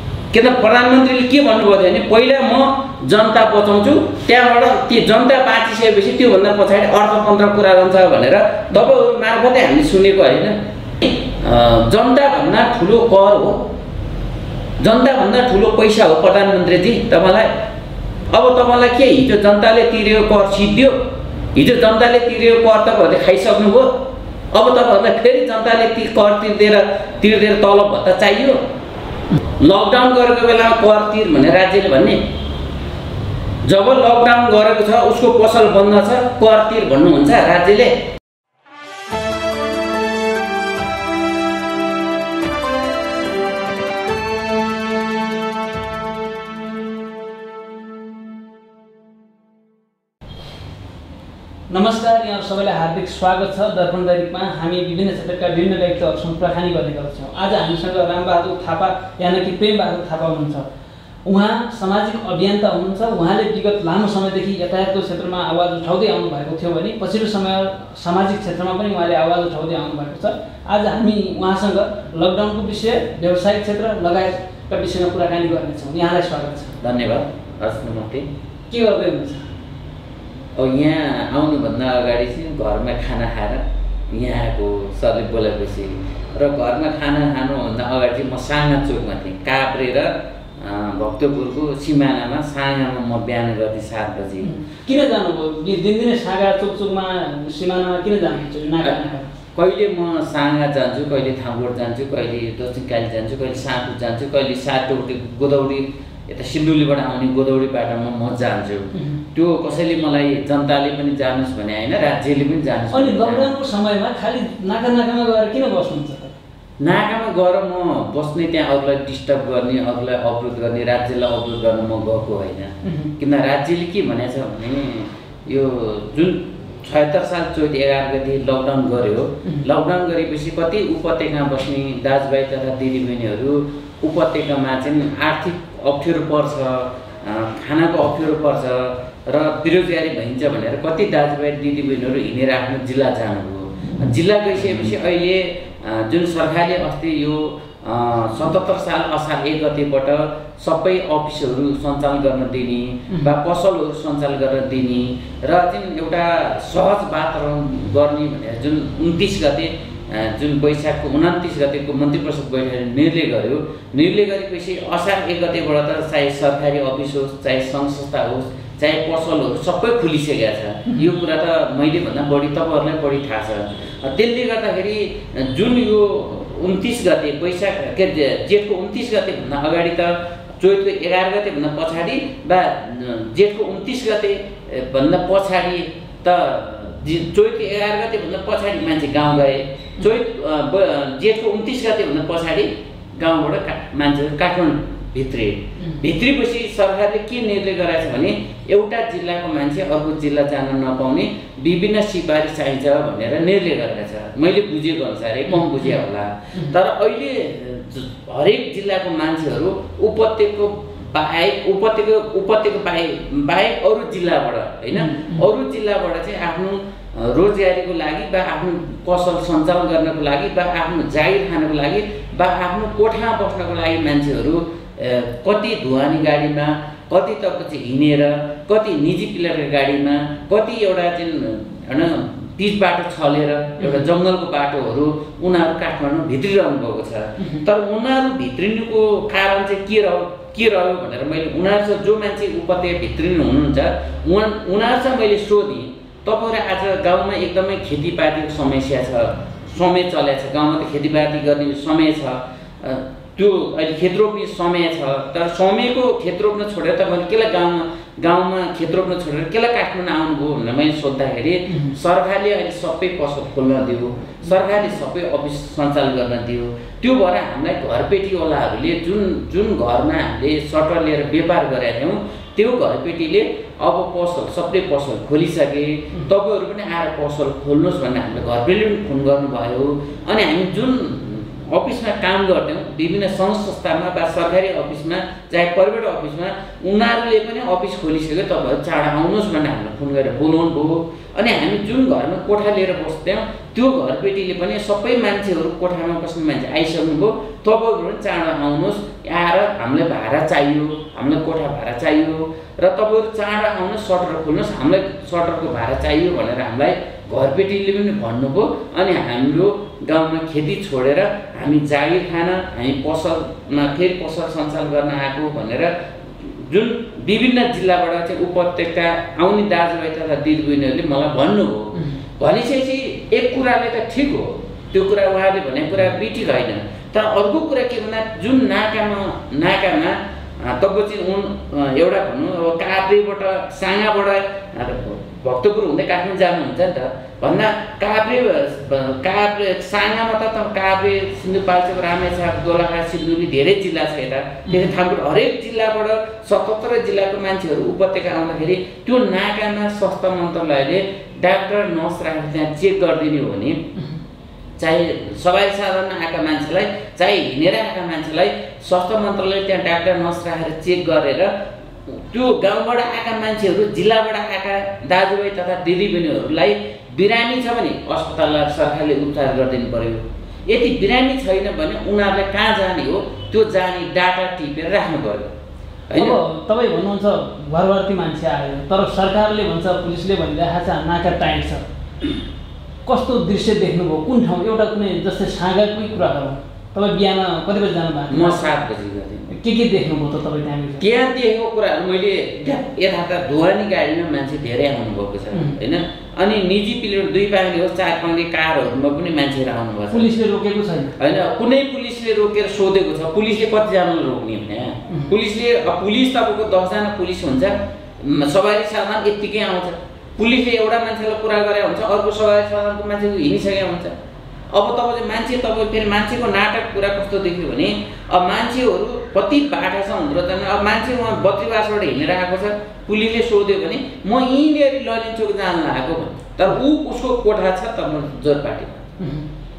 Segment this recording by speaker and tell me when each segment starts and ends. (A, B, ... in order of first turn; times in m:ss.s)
0:00.3-0:13.6 A
0:14.8-0:17.6 A
0:18.3-0:21.0 A
0:21.6-0:24.0 A
0:24.5-0:28.6 A
0:29.6-0:32.2 A
0:33.6-0:38.0 A
0:51.7-1:00.7 B
1:01.2-1:16.8 B
1:16.8-1:18.3 A
1:18.7-1:19.4 B
1:20.6-1:34.5 A
1:34.4-1:39.3 B
1:39.6-1:53.5 A
1:52.9-1:56.4 B
1:56.8-5:53.8 A
2:02.8-2:03.1 B
3:25.5-3:25.9 B
3:35.0-3:35.5 B
3:53.8-3:54.1 B
5:54.0-5:54.2 B
5:54.8-6:01.5 A
6:02.1-6:15.5 A
6:16.1-6:16.4 A
6:16.2-6:21.9 B
6:23.0-6:28.8 B
6:28.3-6:29.5 A
6:29.5-6:31.0 B
6:31.0-6:40.3 A
6:35.5-6:35.8 B
6:40.1-6:41.2 B
6:41.2-6:54.2 A
6:54.7-7:09.1 A
7:09.2-7:09.5 B